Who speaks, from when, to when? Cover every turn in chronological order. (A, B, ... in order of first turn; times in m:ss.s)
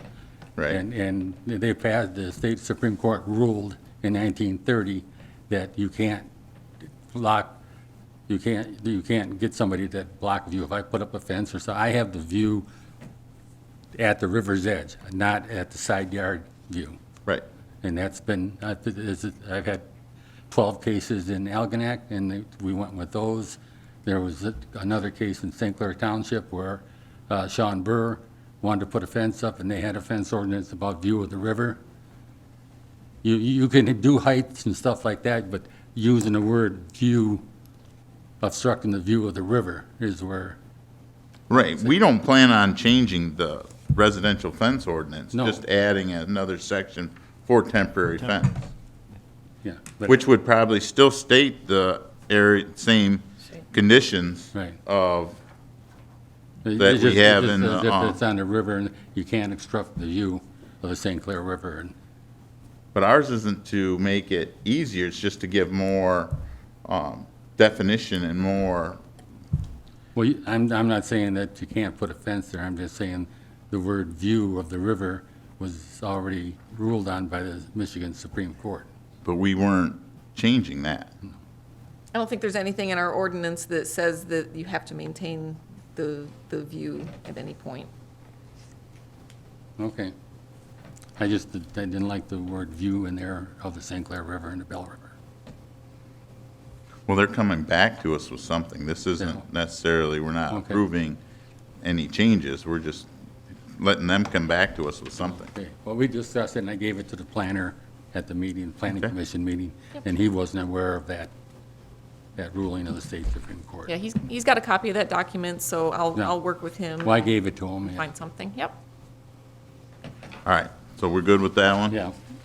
0:00.6-0:00.8 A
0:00.7-0:06.3 B
0:07.1-0:07.6 B
0:08.3-0:12.7 B
0:13.9-0:17.0 B
0:17.8-0:19.8 B
0:20.5-0:31.8 B
0:33.2-0:37.4 B
0:38.4-0:40.6 B
0:41.5-0:48.7 A
0:45.3-0:45.6 B
0:49.6-0:50.2 B
0:50.1-0:55.4 A
0:56.6-1:01.9 B
0:56.8-0:58.2 A
1:02.9-1:09.0 A
1:10.2-1:18.9 B
1:19.2-1:21.1 A
1:22.1-1:27.9 C
1:29.8-1:30.1 B
1:31.2-1:35.2 B
1:37.1-1:41.2 A
1:39.2-1:39.5 B
1:40.5-1:40.8 B
1:41.8-1:43.1 A
1:43.7-1:45.5 A
1:45.5-1:51.3 B
1:52.4-1:53.9 B
1:53.9-1:58.8 C
1:57.0-1:58.1 B
2:00.5-2:02.0 A
2:01.9-2:02.2 B